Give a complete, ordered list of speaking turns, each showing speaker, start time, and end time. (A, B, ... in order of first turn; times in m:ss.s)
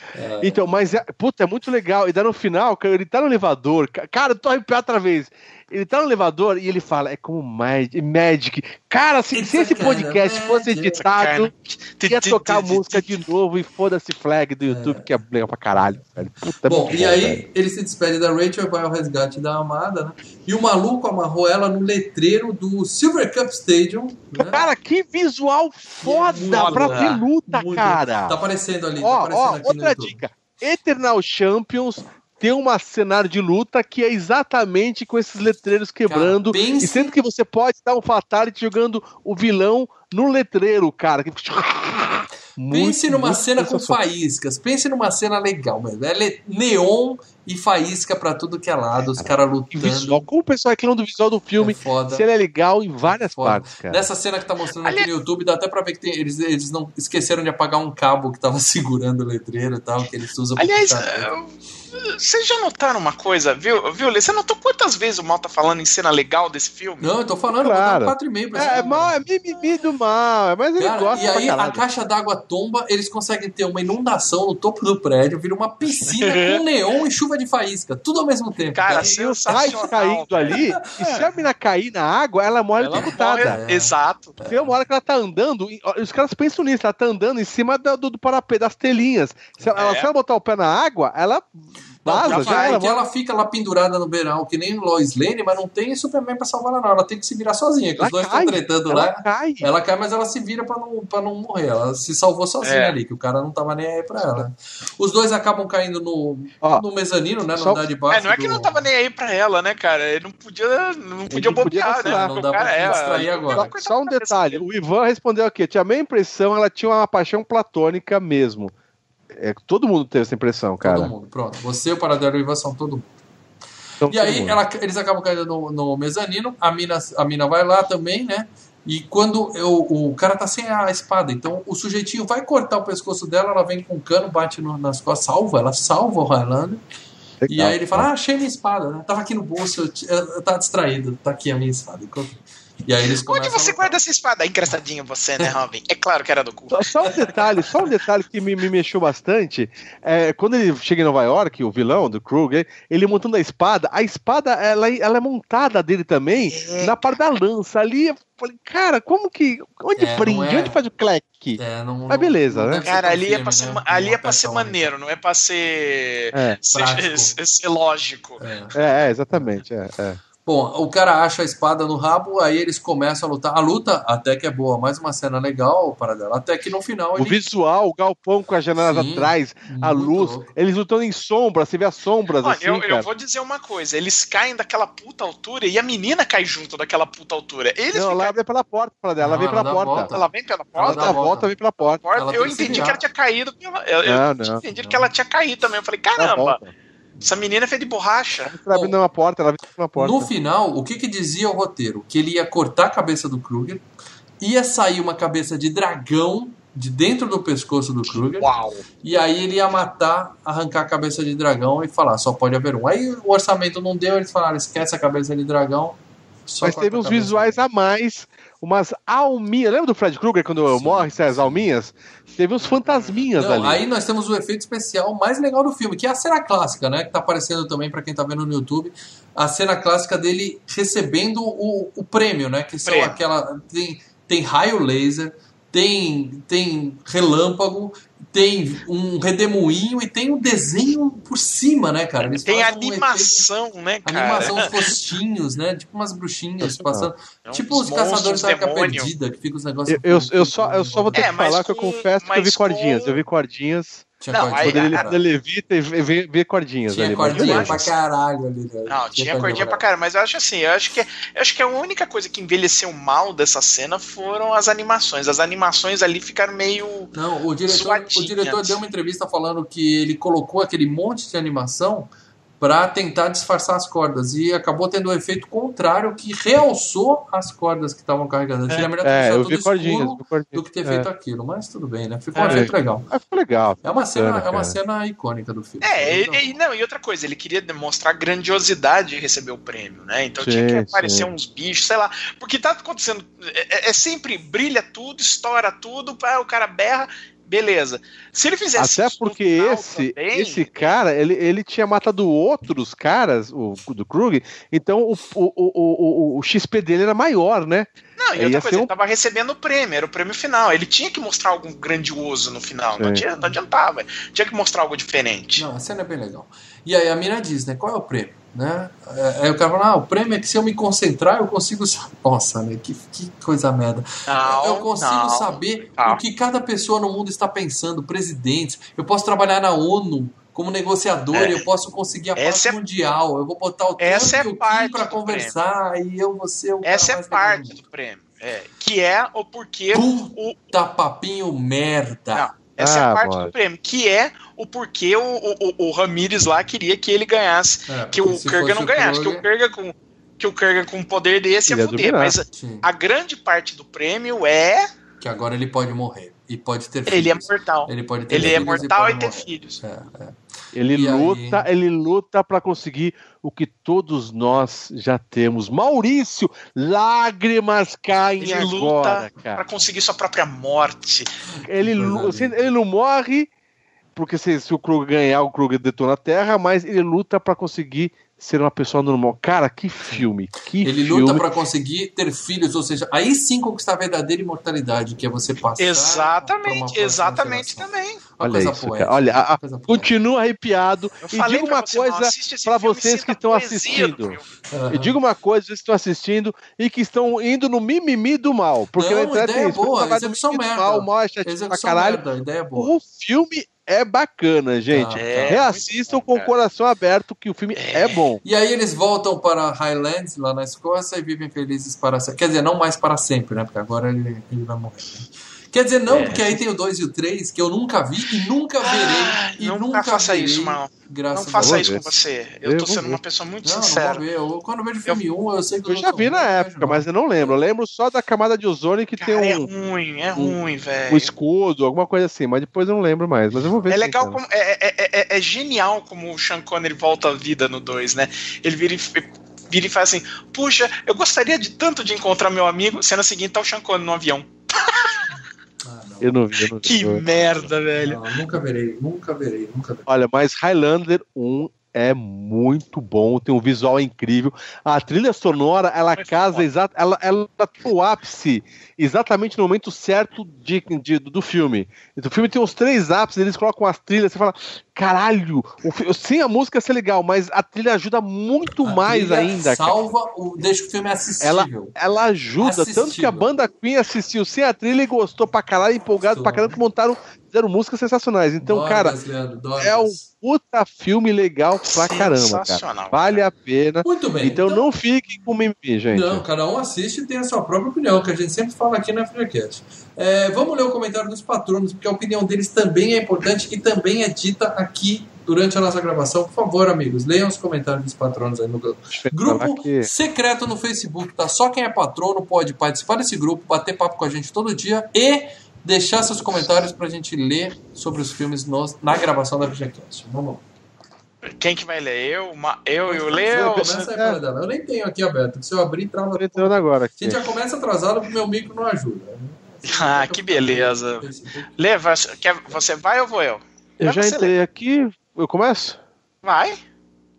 0:00.1-0:00.6 A
0:00.4-0:11.5 B
0:09.3-0:11.0 A
0:11.0-0:13.1 C
0:12.1-0:17.4 B
0:14.7-0:15.1 A
0:16.6-0:24.7 A
0:24.5-0:28.4 B
0:26.0-0:30.2 A
0:26.3-0:27.2 C
0:29.0-0:44.0 B
0:36.1-0:37.1 A
0:42.6-0:50.2 A
0:49.2-0:54.0 B
0:51.6-0:52.3 A
0:53.0-1:01.3 A
0:54.8-0:55.1 C
1:00.6-1:07.1 C
1:07.0-1:09.2 A
1:07.6-1:11.8 B
1:08.6-1:09.7 C
1:10.8-1:19.9 A
1:11.0-1:11.4 C
1:16.0-1:16.6 C
1:18.7-1:21.3 C
1:18.9-1:23.6 B
1:20.5-1:21.0 A
1:22.8-1:24.3 C
1:23.4-1:24.7 A
1:24.5-1:31.5 B
1:29.7-1:30.1 C
1:32.0-1:32.9 B
1:32.0-1:48.8 A
1:32.2-1:33.0 C
1:38.0-1:39.7 B
1:42.6-1:42.9 C
1:47.6-1:47.8 B
1:48.1-1:54.6 C
1:51.3-1:58.7 B
1:52.0-1:53.7 A
1:59.3-2:01.1 B
2:00.8-2:03.1 A
2:04.0-2:04.6 B
2:04.0-2:16.8 A
2:17.4-2:18.1 B
2:17.5-2:24.0 A
2:23.2-2:27.9 C
2:26.7-2:42.8 B
2:36.5-2:37.0 C
2:40.0-2:40.8 A
2:41.6-2:44.9 A
2:42.8-2:48.4 C
2:46.7-2:47.4 A
2:48.4-2:48.8 A
2:48.7-2:50.2 B
2:50.4-2:57.4 A
2:57.2-3:03.1 B
2:58.8-3:00.5 A
3:02.4-3:08.4 C
3:07.9-3:10.1 B
3:09.2-3:11.5 A
3:10.1-3:11.2 C
3:10.8-3:13.0 B
3:11.8-3:16.6 C
3:12.1-3:13.0 A
3:14.0-3:14.6 B
3:14.7-3:15.1 A
3:16.2-3:16.7 B
3:17.2-3:18.9 C
3:18.5-3:20.3 B
3:19.9-3:23.8 A
3:24.4-3:28.5 A
3:28.2-3:28.8 C
3:29.0-3:37.6 A
3:36.6-3:43.8 B
3:40.6-3:41.6 A
3:42.6-3:43.2 C
3:43.4-4:03.4 A
3:52.8-3:53.2 C
4:02.4-4:04.9 C
4:04.0-4:11.4 A
4:06.6-4:07.1 B
4:07.4-4:09.1 C
4:09.9-4:17.8 B
4:11.1-4:13.2 C
4:14.2-4:15.2 A
4:14.3-4:15.0 C
4:16.9-4:19.8 A
4:17.3-4:17.9 C
4:18.9-4:27.1 C
4:27.1-4:43.1 A
4:27.7-4:28.8 C
4:39.0-4:41.1 B
4:42.3-4:42.6 C
4:42.5-4:44.8 B
4:43.8-4:46.5 A
4:45.8-5:00.9 C
4:50.4-4:51.3 B
4:58.8-5:08.9 B
5:08.2-5:15.6 C
5:13.0-5:13.2 B
5:15.6-5:37.8 A
5:24.3-5:26.2 C
5:31.3-5:31.6 C
5:32.4-5:32.8 C
5:34.0-5:35.5 C
5:36.8-5:40.6 C
5:39.9-5:42.5 A
5:42.3-5:54.8 C
5:42.8-5:43.5 B
5:47.9-5:49.4 A
5:51.7-5:52.3 B
5:52.5-5:52.8 A
5:55.2-6:00.4 A
5:57.1-5:59.8 C
5:58.3-5:58.7 B
6:00.7-6:09.6 B
6:00.9-6:01.6 A
6:08.4-6:11.3 C
6:11.5-6:12.7 A
6:11.6-6:13.5 B
6:14.1-6:21.4 B
6:20.8-6:30.1 A
6:25.8-6:28.2 C
6:28.4-6:34.4 B
6:31.2-6:34.5 C
6:34.7-6:35.2 A
6:34.9-6:42.2 B
6:39.0-6:42.9 A
6:42.8-6:48.4 B
6:44.9-6:45.6 A
6:45.1-6:46.5 C
6:47.8-6:48.2 C
6:48.4-7:01.9 A
6:56.1-6:56.6 B
6:56.1-6:56.4 C
6:58.8-7:04.2 C
7:01.6-7:02.1 B
7:02.6-7:03.2 B
7:03.6-7:07.5 A
7:05.9-7:09.7 B
7:09.2-7:11.3 C
7:11.1-7:14.4 B
7:13.9-7:25.3 C
7:25.8-7:26.4 A
7:26.2-7:27.2 B
7:26.8-7:28.2 C
7:28.0-7:30.1 A
7:30.1-7:50.0 B
7:36.2-7:36.6 C
7:48.8-7:51.9 A
7:51.4-7:59.1 B
7:52.6-7:53.5 A
7:56.2-7:56.8 A
7:58.6-8:00.3 A
7:59.8-8:06.4 B
8:01.8-8:03.4 C
8:04.0-8:04.8 A
8:06.1-8:30.6 A
8:19.1-8:20.1 B
8:26.3-8:26.6 B
8:31.4-8:34.0 C
8:33.1-8:41.7 A
8:33.5-8:34.4 B
8:36.3-8:37.4 B
8:39.8-8:44.5 C
8:44.0-8:46.0 B
8:46.4-8:46.8 C